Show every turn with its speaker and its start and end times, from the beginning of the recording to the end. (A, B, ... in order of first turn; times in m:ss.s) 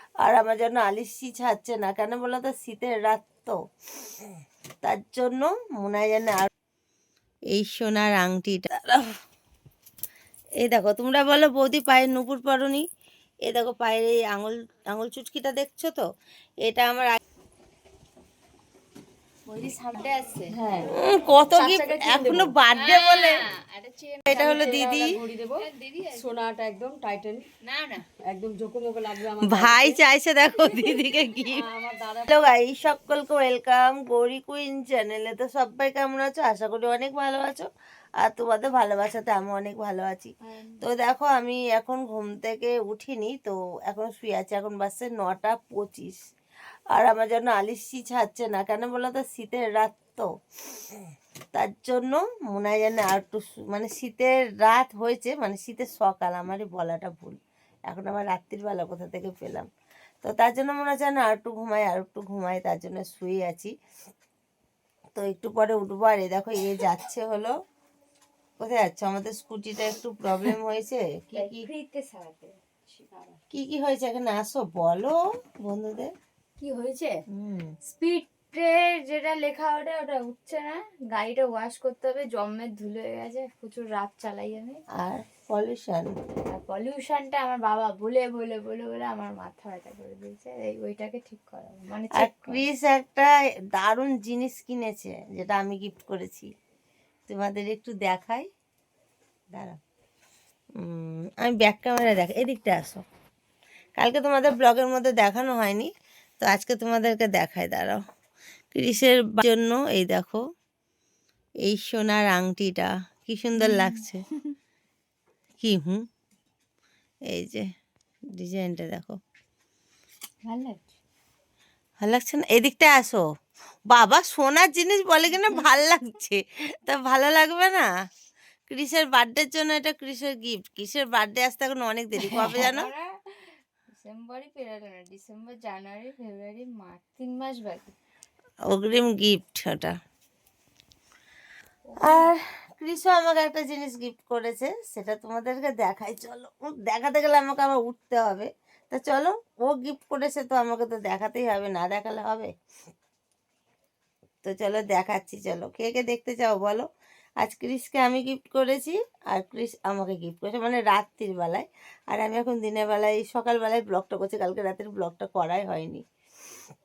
0:00.2-0:03.6 A
0:04.8-0:06.5 A
0:07.5-0:09.2 A
0:10.6-0:12.8 A
0:13.4-0:16.1 A
0:16.6-0:17.2 A
0:19.5-0:20.6 B
0:20.5-0:20.9 C
0:20.9-0:23.4 A
0:21.5-0:22.6 C
0:22.7-0:24.9 B
0:24.3-0:25.1 A
0:24.3-0:27.4 C
0:25.6-0:26.3 B
0:27.6-0:28.0 B
0:28.2-0:30.0 C
0:29.4-0:31.6 A
0:30.7-0:31.0 B
0:31.5-0:32.3 C
0:32.3-0:37.7 A
0:38.2-0:46.2 A
0:40.4-0:40.8 B
0:46.9-0:50.3 A
0:51.5-0:59.7 A
1:00.2-1:03.7 A
1:05.2-1:07.5 A
1:08.6-1:11.6 A
1:11.3-1:13.4 B
1:13.5-1:16.1 A
1:16.6-1:17.2 B
1:17.3-1:17.7 A
1:17.8-1:24.8 B
1:25.0-1:26.1 A
1:26.5-1:32.6 B
1:32.1-1:36.5 A
1:37.3-1:38.5 A
1:39.5-1:39.8 A
1:40.8-1:43.0 A
1:44.0-1:48.0 A
1:48.7-1:50.4 A
1:51.6-1:54.2 A
1:53.6-1:54.5 B
1:55.6-1:56.0 A
1:57.3-1:57.7 A
1:58.3-1:59.2 A
2:00.4-2:00.9 B
2:02.0-2:03.2 A
2:03.9-2:07.9 A
2:08.7-2:12.9 A
2:12.2-2:17.9 B
2:18.7-2:19.9 A
2:21.8-2:22.3 B
2:22.0-2:32.5 A
2:34.4-2:36.9 A
2:37.4-2:46.0 A